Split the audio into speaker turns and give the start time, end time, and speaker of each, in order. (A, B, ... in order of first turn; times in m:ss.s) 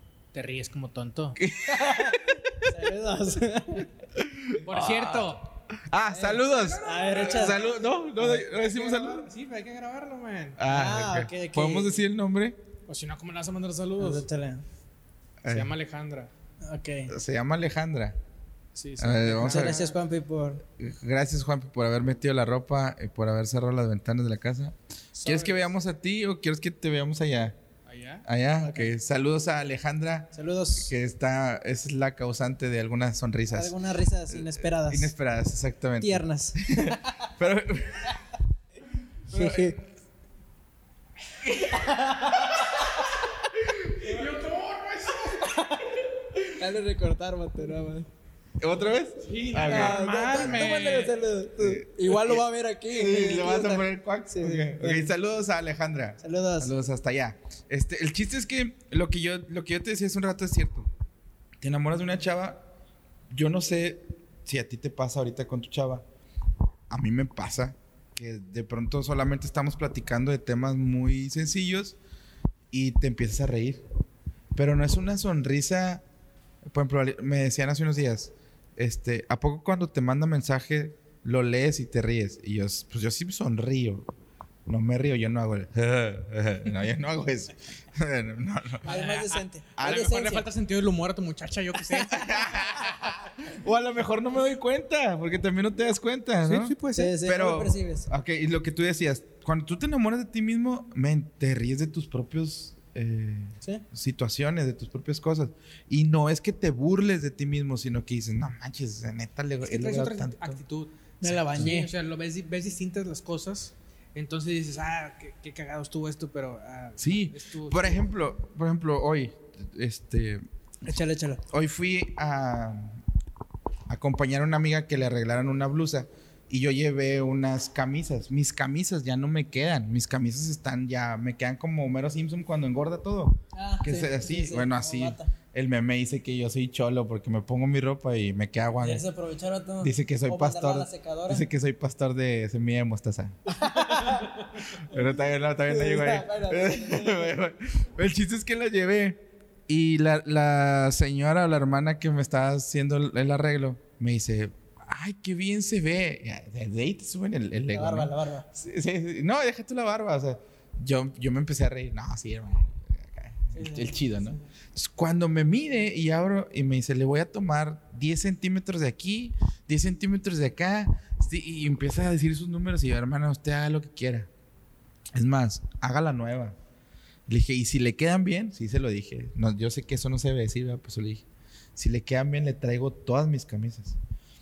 0:00.3-0:01.4 A
0:01.4-0:02.7 B
0:02.6-0:03.9 C
0:04.2-0:09.3 B
0:04.6-0:05.5 A
0:06.1-0:07.6 C
0:06.4-0:07.6 A
0:08.2-0:10.6 A
0:10.6-0:12.6 B
0:10.7-0:12.0 C
0:12.9-0:14.3 A
0:14.0-0:14.6 C
0:15.4-0:15.7 B
0:15.5-0:16.3 A
0:16.6-0:17.1 C
0:17.1-0:18.2 B
0:18.8-0:19.9 A
0:19.0-0:19.8 B
0:19.4-0:20.6 C
0:20.8-0:27.6 B
0:25.2-0:25.6 A
0:27.9-0:28.2 A
0:28.2-0:33.7 B
0:28.6-0:28.9 C
0:30.3-0:30.9 C
0:33.5-0:35.1 C
0:34.3-0:38.2 B
0:36.0-0:37.2 C
0:39.3-0:39.8 C
0:39.3-0:39.8 B
0:41.7-0:42.9 C
0:43.5-0:44.2 B
0:44.0-0:45.6 A
0:45.4-0:48.1 C
0:48.6-0:50.8 B
0:49.2-0:51.2 A
0:49.6-0:55.1 C
0:51.6-1:00.9 B
0:56.2-0:56.7 C
1:01.6-1:02.6 B
1:03.3-1:06.0 B
1:06.9-1:12.0 B
1:12.7-1:13.8 B
1:14.6-1:16.0 B
1:16.7-1:24.1 B
1:24.7-1:28.8 B
1:28.8-1:33.0 A
1:28.8-1:30.5 C
1:29.8-1:30.1 B
1:32.1-1:50.6 B
1:36.4-1:37.2 A
1:36.9-1:38.1 C
1:49.6-1:50.9 A
1:51.2-1:51.9 C
1:51.2-1:51.7 B
1:51.5-1:58.0 A
1:57.0-2:00.4 B
2:00.8-2:01.4 C
2:01.5-2:03.0 B
2:03.9-2:19.0 B
2:13.5-2:15.3 C
2:18.8-2:21.5 C
2:19.8-2:54.3 B
2:23.5-2:25.1 C
2:25.7-2:27.4 C
2:37.7-2:38.5 C
2:43.5-2:44.5 C
2:55.1-2:56.6 B
2:57.3-3:01.2 B
3:01.8-3:04.0 B